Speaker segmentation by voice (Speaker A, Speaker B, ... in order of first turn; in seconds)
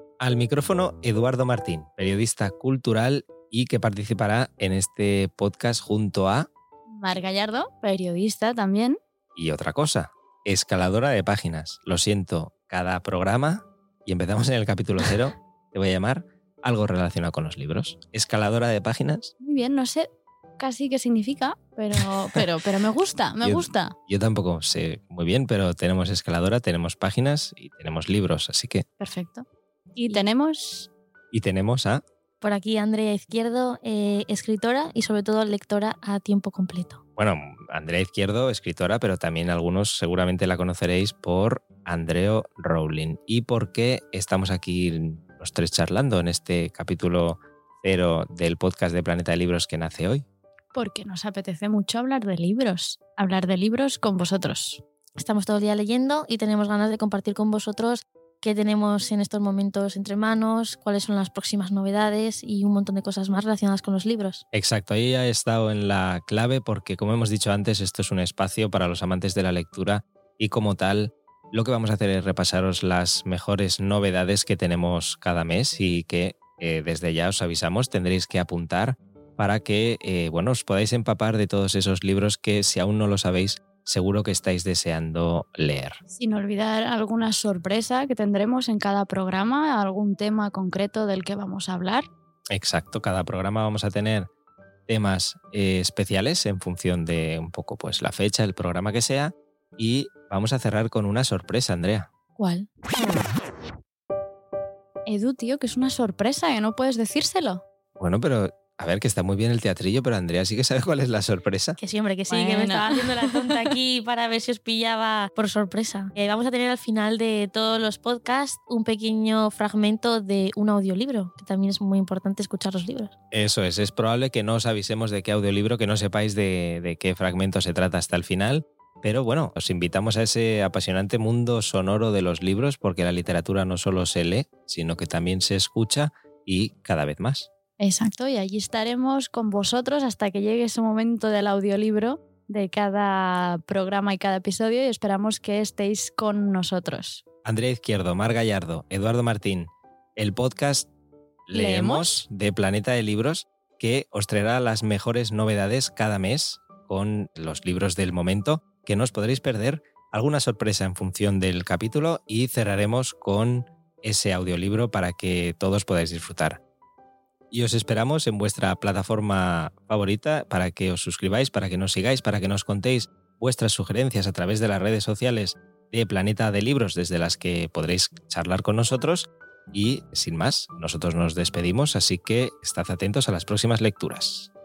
Speaker A: 0.2-6.5, 9.4-19.3, 23.4-28.9, 31.3-32.0, 37.2-50.2, 64.5-86.0, 92.5-94.3, 94.9-102.1, 108.0-111.8, 123.3-137.5, 147.4-150.9, 151.5-166.6, 167.5-184.5
Speaker B: 6.9-9.0, 19.4-23.9, 29.0-30.9, 50.7-54.8, 86.1-92.1, 102.4-102.7, 105.1-107.6, 112.3-113.7, 137.8-147.2, 151.5-152.1
Speaker C: 32.4-37.0, 55.2-64.4, 111.8-123.1